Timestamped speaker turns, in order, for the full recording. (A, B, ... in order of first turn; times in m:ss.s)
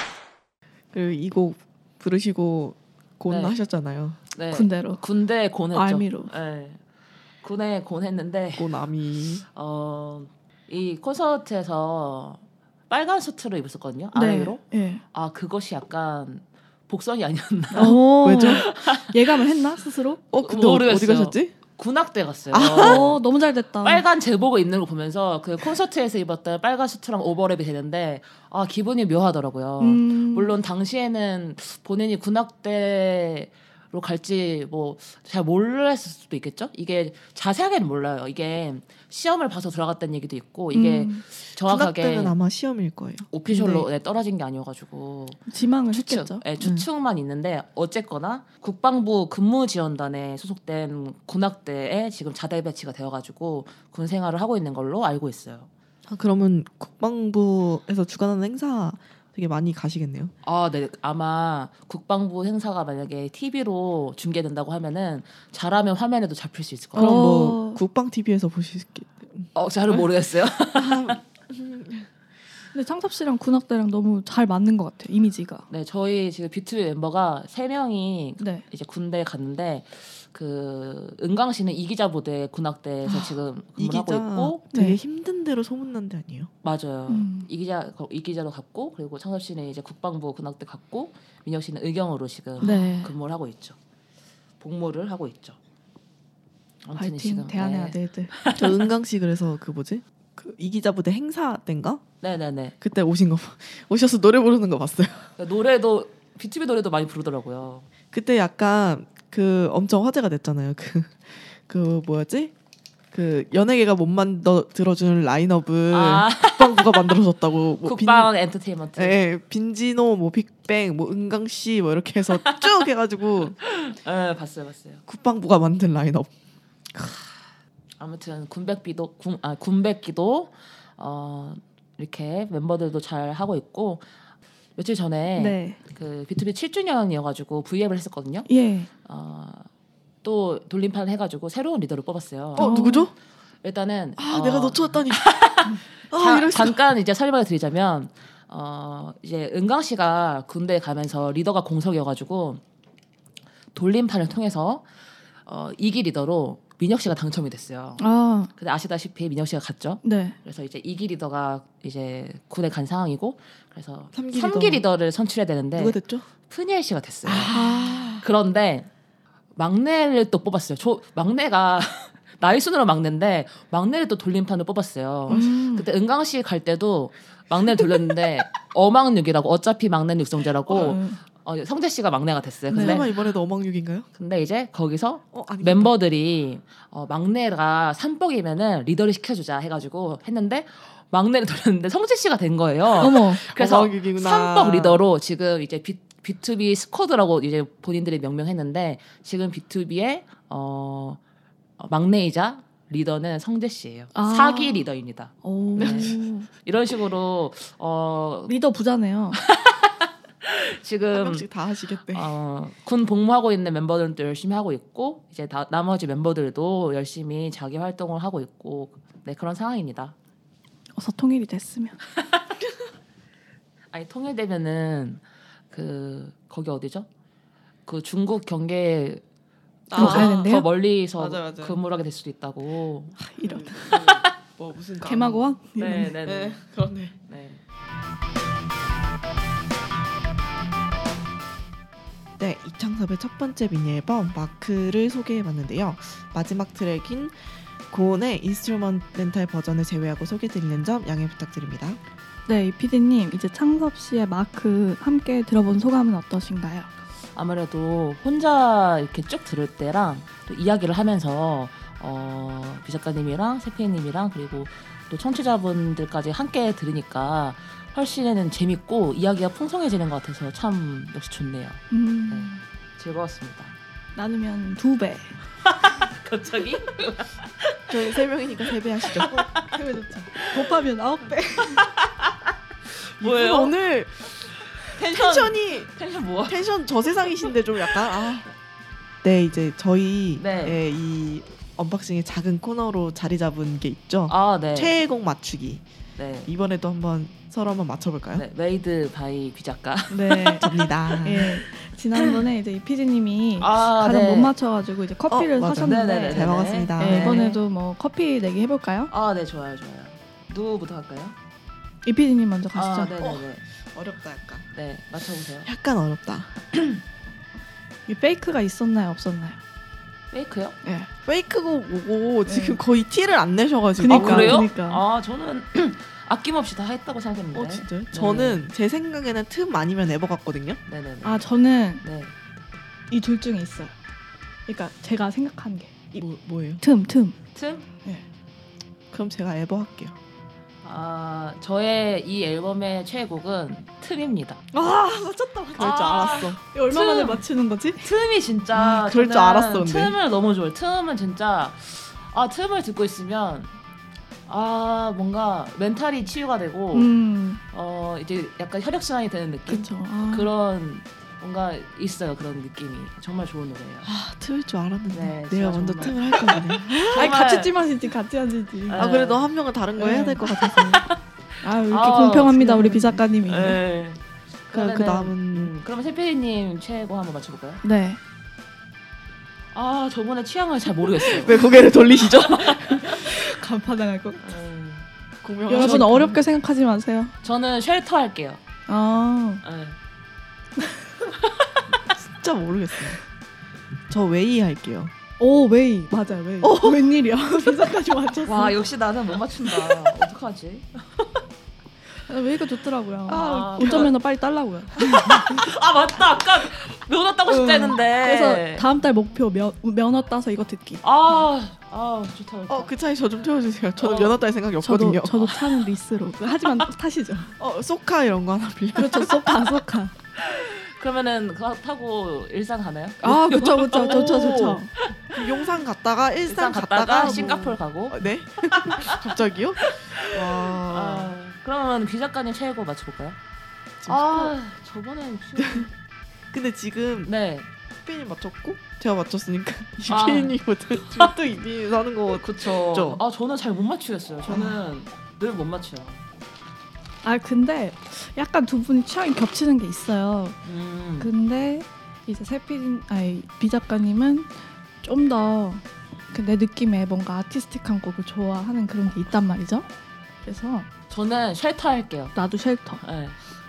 0:00.9-0:04.2 A
0:03.3-0:03.6 B
0:04.3-0:06.8 B
0:04.5-0:05.0 C
0:05.7-0:06.3 C
0:07.4-0:08.7 B
0:08.6-0:09.4 A
0:09.5-0:14.6 B
0:14.1-0:15.0 C
0:15.1-0:19.1 B
0:17.7-0:20.2 C
0:17.8-0:18.6 A
0:20.3-0:21.5 A
0:20.4-0:23.2 B
0:22.5-0:23.1 A
0:22.7-0:24.0 C
0:23.8-0:42.3 B
0:29.8-0:30.5 C
0:40.7-0:41.2 C
0:41.6-0:43.9 A
0:43.3-0:45.4 B
0:45.5-0:46.4 C
0:45.9-0:55.7 B
0:46.6-0:46.8 A
0:56.1-1:00.3 A
1:00.4-1:07.2 B
1:06.9-1:07.8 C
1:06.9-1:10.1 A
1:09.5-1:11.2 B
1:10.7-1:12.1 A
1:12.7-1:15.6 C
1:15.7-1:24.6 B
1:18.4-1:18.6 C
1:23.0-1:26.5 A
1:24.7-1:25.0 C
1:26.6-1:33.8 B
1:27.1-1:27.5 C
1:32.6-1:33.1 C
1:34.6-1:35.6 B
1:36.8-1:38.9 B
1:37.0-1:38.4 C
1:38.5-1:42.0 A
1:42.2-1:42.7 B
1:42.8-1:45.3 A
1:45.4-1:47.8 B
1:48.1-1:52.5 A
1:53.1-1:58.3 A
1:55.9-1:57.0 B
1:57.8-1:59.2 B
1:59.0-2:03.6 A
2:02.4-2:02.8 B
2:03.6-2:05.0 B
2:05.1-2:06.3 A
2:06.9-2:07.2 A
2:08.0-2:14.0 B
2:14.8-2:18.5 B
2:15.4-2:15.8 C
2:18.5-2:18.9 C
2:19.0-2:19.7 B
2:20.2-2:22.7 B
2:22.6-2:23.1 A
2:22.6-2:23.1 C
2:23.6-2:32.6 B
2:24.2-2:25.3 A
2:26.1-2:26.8 A
2:33.7-2:34.8 B
2:35.4-2:38.0 B
2:38.0-2:38.5 C
2:38.5-2:47.5 B
2:40.0-2:40.4 C
2:44.1-2:44.8 A
2:45.8-2:46.2 A
2:47.2-2:48.2 A
2:47.5-2:48.1 C
2:48.2-2:48.9 B
2:49.6-3:03.1 B
2:55.3-2:55.9 C
3:00.7-3:01.2 C
3:02.7-3:03.1 C
3:02.7-3:04.1 A
3:04.2-3:21.2 B
3:05.3-3:05.9 A
3:13.0-3:13.4 C
3:13.0-3:15.0 A
3:21.8-3:28.5 B
3:24.1-3:24.8 C
3:25.4-3:26.5 C
3:25.8-3:26.2 A
3:28.5-3:29.4 C
3:29.4-3:31.4 B
3:31.1-3:32.3 A
3:32.1-3:40.1 B
3:41.0-3:42.0 C
3:42.2-3:42.4 B
3:43.9-3:47.1 B
3:47.8-3:49.2 B
3:49.9-3:50.5 A
3:49.9-3:50.7 C
3:49.9-3:53.2 B
3:51.2-3:51.8 A
3:53.2-3:54.0 C
3:53.4-3:55.6 A
3:55.0-3:56.1 C
3:55.8-3:56.6 B
3:56.2-3:57.2 A
3:57.3-3:57.6 B
4:02.4-4:12.0 A
4:12.5-4:16.9 C
4:17.3-4:33.7 B
4:31.9-4:32.6 C
4:34.1-4:35.4 C
4:35.6-4:37.9 B
4:37.9-4:39.5 A
4:39.1-4:39.7 B
4:39.5-4:41.9 C
4:40.3-4:40.6 B
4:41.7-4:43.7 B
4:43.2-4:44.2 A
4:44.4-4:46.6 B
4:45.0-4:45.9 A
4:46.5-4:48.5 A
4:47.8-4:48.2 B
4:49.2-4:55.8 A
4:50.4-4:50.8 B
4:54.3-4:54.9 B
4:56.2-4:56.5 B
4:56.5-4:58.4 A
4:58.3-5:00.7 B
5:00.1-5:09.1 C
5:00.6-5:01.6 A
5:03.6-5:04.5 B
5:05.3-5:07.4 A
5:05.7-5:07.6 B
5:09.1-5:11.4 B
5:12.0-5:13.2 C
5:12.7-5:13.6 B
5:13.2-5:14.6 A
5:14.7-5:15.7 B
5:15.6-5:16.9 A
5:18.1-5:19.6 C
5:20.3-5:20.8 B
5:20.8-5:21.1 C
5:21.2-5:24.7 A
5:22.4-5:22.8 C
5:24.0-5:25.0 C
5:24.1-5:28.6 B
5:27.5-5:30.8 A
5:30.9-5:31.4 B
5:31.2-5:32.0 C
5:32.0-5:32.3 B
5:33.1-5:33.9 C
5:34.7-5:36.2 C
5:36.1-5:36.8 A
5:36.8-5:37.4 C
5:37.5-5:37.9 B
5:39.1-5:40.2 A
5:40.8-5:44.6 B
5:44.7-5:48.0 C
5:45.7-5:46.6 A
5:45.8-5:47.4 B
5:48.0-5:53.7 B
5:48.8-5:50.2 A
5:54.5-5:57.1 B
5:56.9-5:57.6 C
5:57.7-6:04.1 B
5:59.7-6:00.5 C
6:04.0-6:07.3 A
6:05.1-6:07.7 B
6:06.8-6:09.0 C
6:08.9-6:09.4 B
6:08.9-6:11.0 A
6:10.0-6:10.8 C
6:11.6-6:13.8 C
6:11.8-6:17.8 B
6:14.7-6:15.7 A
6:17.8-6:18.2 C
6:19.7-6:21.6 B
6:21.4-6:23.1 A
6:21.5-6:21.8 C
6:22.2-6:23.4 B
6:23.0-6:24.4 C
6:24.4-6:25.1 B
6:25.4-6:26.4 A
6:25.7-6:27.3 C
6:25.8-6:26.2 B
6:27.4-6:28.6 B
6:28.9-6:29.6 C
6:29.6-6:30.0 B
6:32.1-6:33.2 A
6:34.1-6:35.1 A
6:35.4-6:38.8 C
6:36.6-6:37.0 A
6:38.4-6:41.4 B
6:42.3-6:45.6 C
6:43.3-6:44.1 B
6:43.7-6:44.1 A
6:45.0-6:48.8 B
6:47.5-6:51.0 C
6:51.0-6:52.9 B
6:52.7-6:55.3 A
6:54.0-6:54.4 B
6:54.8-6:57.5 C
6:57.6-6:59.8 A
6:58.9-7:00.1 C
7:00.4-7:05.2 B
7:03.2-7:04.9 C
7:03.9-7:04.8 A
7:05.3-7:11.3 A
7:06.5-7:09.3 B
7:09.8-7:13.4 B
7:14.0-7:14.5 A
7:14.1-7:15.9 B
7:15.6-7:15.9 A
7:16.5-7:17.3 A
7:17.2-7:17.7 B
7:18.0-7:23.2 A
7:20.1-7:21.3 B
7:22.4-7:26.2 B
7:24.5-7:24.7 A
7:27.2-7:30.6 C
7:30.6-7:31.3 B
7:31.2-7:39.9 C
7:40.4-7:40.9 C
7:41.1-7:42.3 B
7:42.3-7:43.0 C
7:43.0-7:43.4 B